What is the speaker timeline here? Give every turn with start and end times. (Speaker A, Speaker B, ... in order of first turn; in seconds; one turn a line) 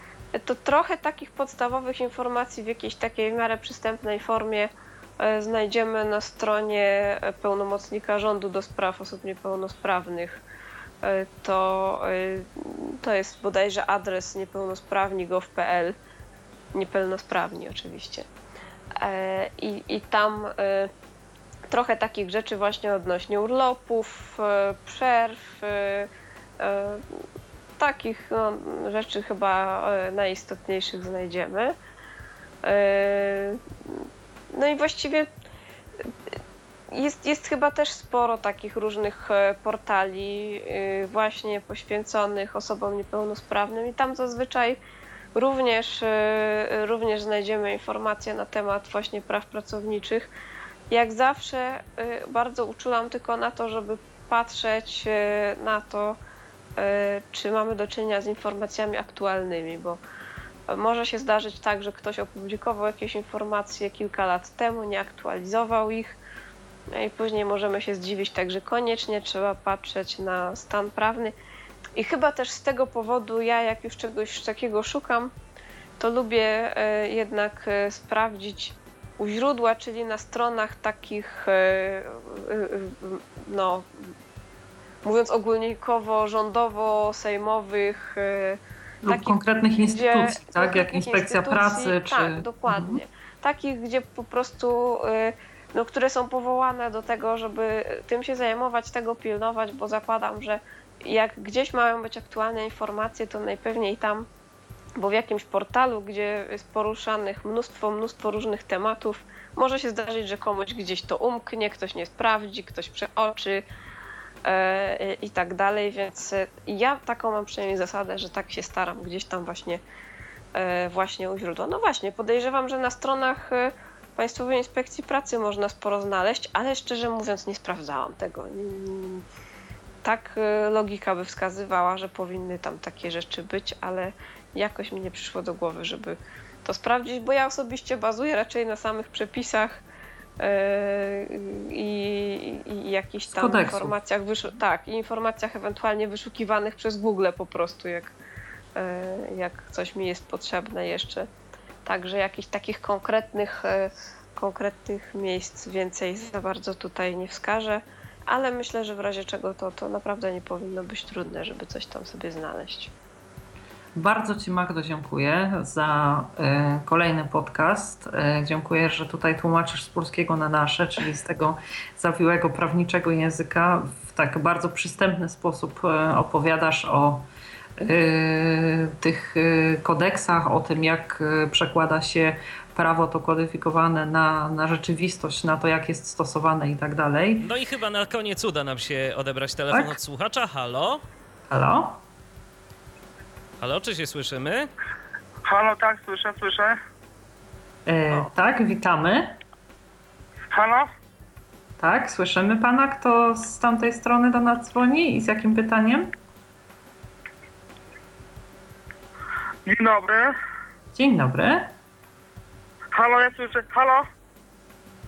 Speaker A: 0.3-10.4
Speaker A: 11.0-15.9
Speaker A: 16.7-18.3
Speaker A: 19.0-20.9
Speaker A: 21.7-27.2
Speaker A: 27.8-31.8
Speaker A: 32.6-35.3
Speaker A: 36.9-44.8
Speaker A: 45.4-50.3
Speaker A: 50.9-56.2
Speaker A: 56.8-60.0
Speaker A: 60.7-66.2
Speaker A: 66.9-71.3
Speaker A: 72.0-75.3
Speaker A: 76.0-84.0
Speaker A: 85.0-104.3
Speaker B: 89.0-93.0
Speaker A: 105.0-113.6
Speaker A: 114.5-119.8
Speaker A: 120.5-129.2
Speaker A: 130.0-139.8
Speaker A: 140.4-148.1
Speaker B: 143.3-143.9
Speaker A: 148.8-151.3
Speaker A: 151.9-162.9
Speaker B: 163.9-177.2
Speaker B: 177.8-187.5
Speaker C: 187.4-191.0
Speaker B: 189.7-190.0
Speaker B: 191.5-192.0
Speaker C: 193.6-194.7
Speaker D: 195.4-196.8
Speaker B: 197.9-199.4
Speaker D: 200.5-200.9
Speaker B: 201.8-206.1
Speaker D: 209.7-210.3
Speaker B: 210.9-211.7
Speaker D: 212.9-214.1